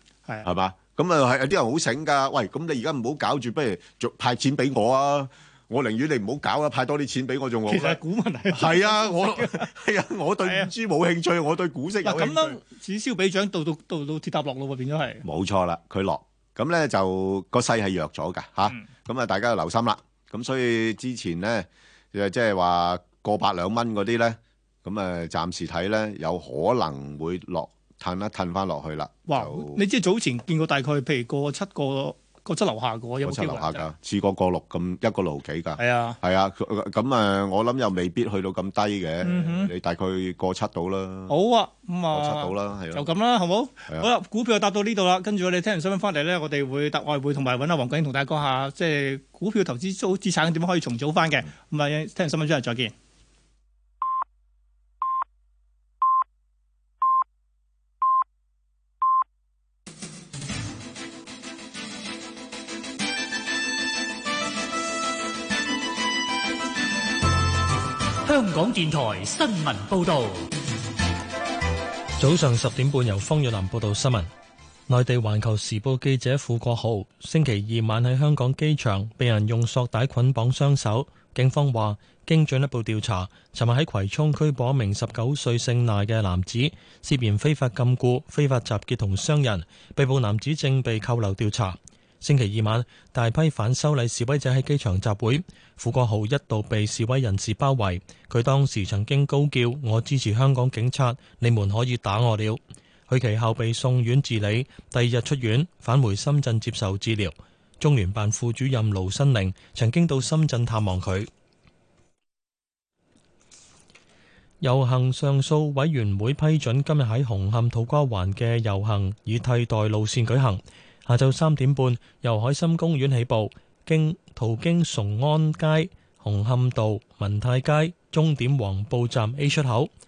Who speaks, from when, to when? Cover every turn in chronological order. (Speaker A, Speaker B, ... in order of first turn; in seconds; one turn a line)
Speaker A: 0.4-8.0
Speaker B: 7.7-9.7
Speaker A: 8.5-12.6
Speaker B: 10.4-10.7
Speaker B: 12.0-15.2
Speaker A: 15.2-29.8
Speaker B: 29.3-33.9
Speaker A: 33.2-41.3
Speaker B: 35.8-36.2
Speaker B: 39.2-39.7
Speaker B: 41.3-52.9
Speaker A: 42.1-43.1
Speaker C: 68.2-70.5
Speaker D: 72.2-74.3
Speaker D: 74.9-111.3
Speaker D: 114.6-129.9